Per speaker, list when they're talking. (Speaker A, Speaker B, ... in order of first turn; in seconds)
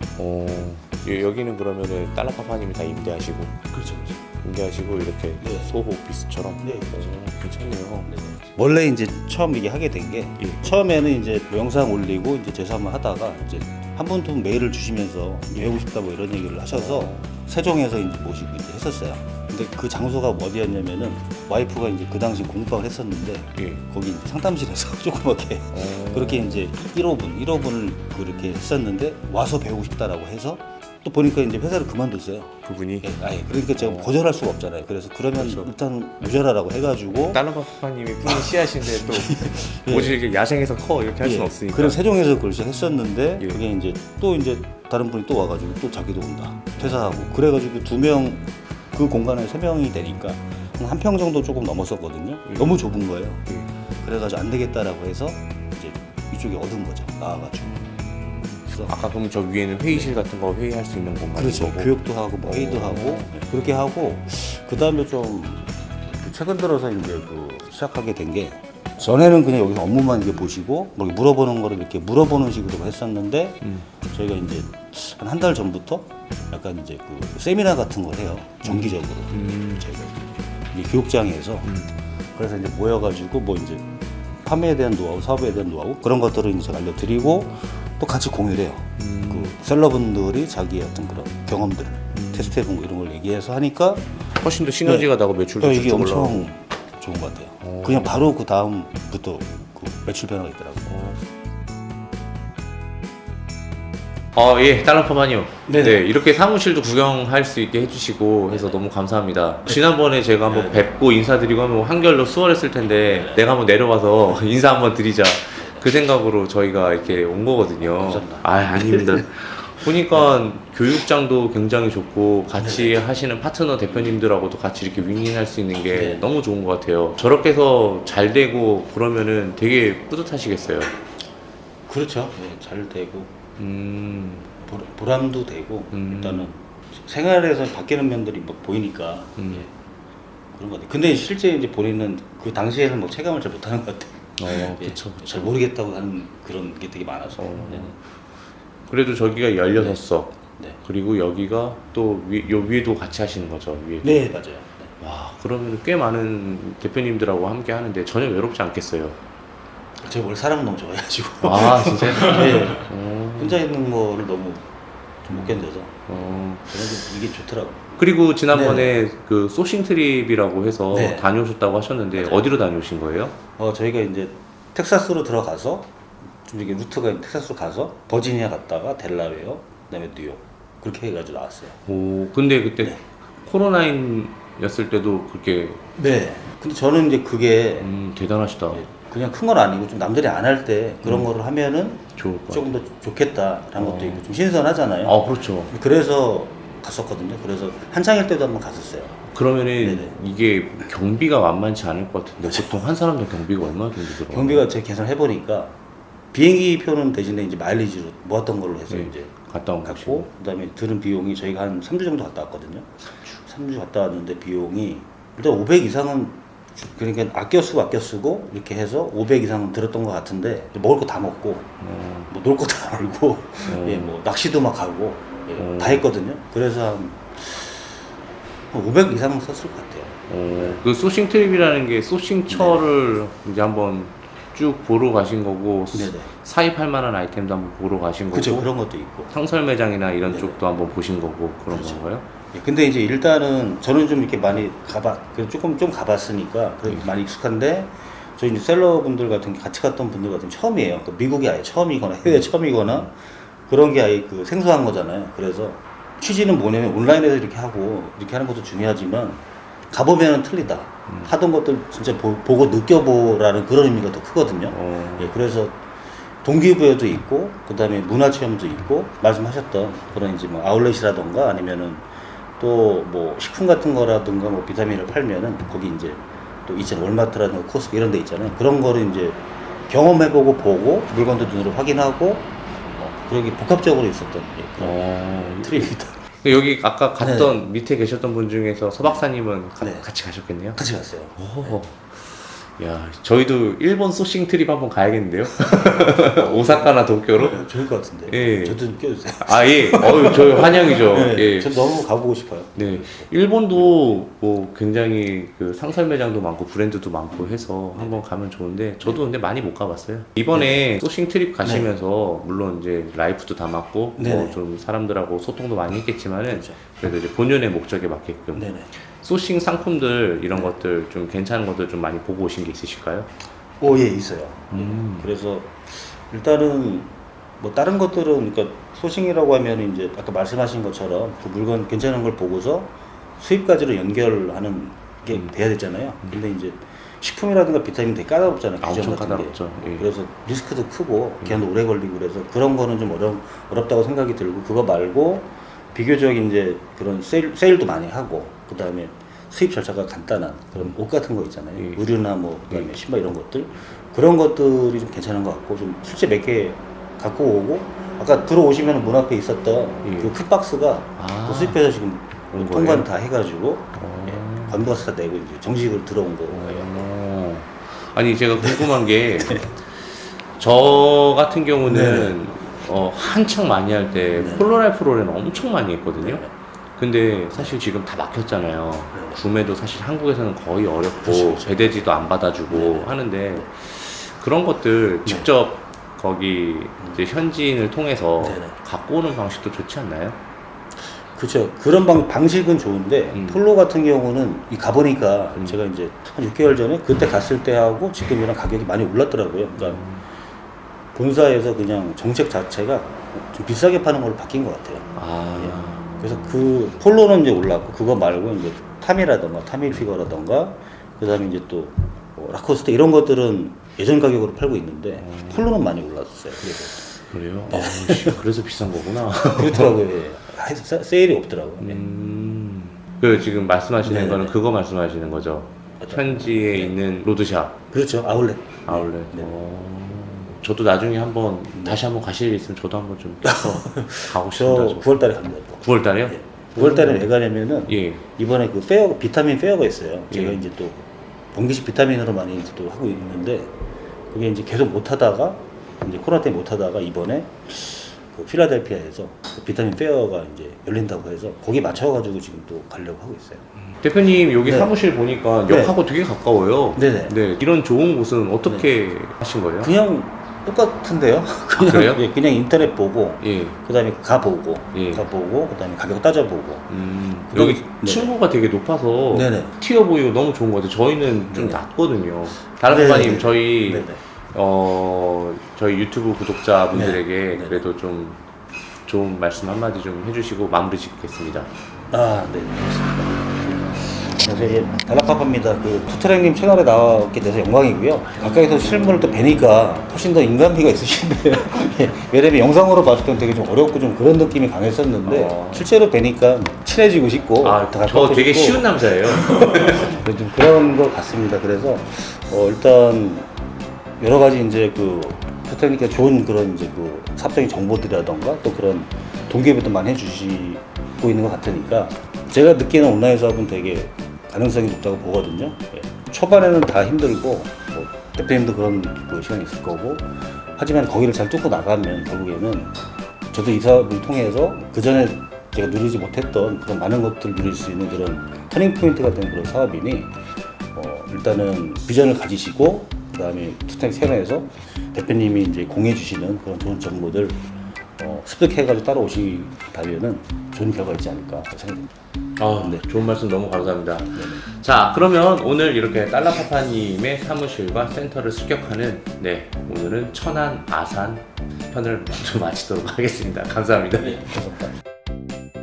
Speaker A: 0.2-3.6, 4.4-8.1, 10.4-10.6, 16.7-17.3, 23.5-23.8, 25.7-26.7, 32.6-33.1, 33.8-34.1, 35.4-35.7, 37.1-42.0, 46.8-47.3, 52.5-52.7, 57.6-63.4, 73.6-73.9, 78.6-79.9, 81.6-81.9, 89.0-89.5, 92.1-92.6, 94.4-96.5, 97.6-98.2, 100.9-101.2, 104.3-130.9, 133.6-134.5, 135.9-136.5, 139.4-139.7, 144.4-145.5, 147.4-148.0, 148.9-154.2, 155.0-159.2, 161.4-163.6, 166.1-167.0, 168.0-173.3, 181.8-185.8, 187.8-188.8, 191.0-191.3, 192.2-192.7, 193.8-194.3, 195.0-195.7, 199.3-204.7, 208.9-210.3, 221.8-222.3, 223.6-224.1, 225.6-226.1, 230.3-238.7, 239.3-242.2, 264.7-265.3, 284.8-290.8, 291.4-297.7, 298.3-298.8, 299.4-302.0, 302.7-323.3, 324.7-325.3, 338.8-340.1, 351.8-352.0, 360.0-360.3, 361.2-361.8, 362.5-363.1, 363.9-364.9, 366.5-376.4, 376.9-390.4, 393.3-393.6, 399.8-400.2, 405.1-406.2, 415.2-415.7, 417.1-420.0, 421.8-427.8, 428.9-435.1, 435.8-437.3, 437.9-438.2, 440.3-440.6, 453.9-459.9, 461.8-462.2, 463.4-463.8, 464.9-465.2, 466.9-478.4, 479.1-481.7, 488.3-489.6, 495.2-495.9, 497.6-500.2, 542.6-554.5
Speaker B: 3.7-4.2, 5.4-5.7, 6.6-7.1, 8.1-37.4, 38.2-40.2, 41.2-53.5, 54.0-57.8, 58.6-59.0, 59.9-60.1, 61.3-81.7, 82.3-94.1, 94.8-101.0, 105.7-106.0, 108.5-108.8, 110.4-110.9, 113.0-113.4, 115.6-115.9, 117.8-119.2, 122.6-123.0, 125.9-126.2, 131.9-133.3, 134.6-139.8, 140.5-147.9, 154.0-154.9, 160.0-164.7, 165.2-166.0, 166.7-167.9, 168.5-169.0, 170.9-171.3, 172.1-172.5, 173.6-181.8, 186.0-187.9, 188.7-195.2, 195.7-199.2, 199.8-200.2, 202.4-202.8, 204.1-205.8, 206.3-209.3, 209.8-221.7, 222.3-228.0, 228.7-230.8, 232.5-232.8, 235.9-236.3, 238.3-239.3, 240.2-240.6, 241.7-265.8, 266.4-272.1, 272.6-286.2, 287.2-287.5, 289.8-290.1, 290.7-291.8, 295.7-304.0, 307.9-308.2, 310.5-310.8, 311.6-311.9, 314.2-314.6, 316.5-316.8, 318.5-318.9, 323.8-366.9, 368.6-369.7, 371.9-372.4, 374.3-374.6, 376.2-376.5, 379.1-379.4, 381.2-382.1, 382.7-383.7, 388.4-388.7, 391.3-400.0, 401.1-417.0, 417.7-418.4, 419.5-422.0, 424.0-424.5, 426.0-427.0, 427.9-429.5, 431.7-432.0, 433.4-443.7, 444.3-453.7, 454.6-454.9, 455.7-455.9, 456.9-457.4, 458.6-458.9, 459.8-466.9, 467.5-468.3, 469.3-469.7, 471.5-471.8, 472.9-474.2, 476.9-477.8, 482.1-503.5, 504.2-522.9, 523.5-530.3, 530.9-537.6, 538.2-542.1, 544.4-544.6, 554.2-554.9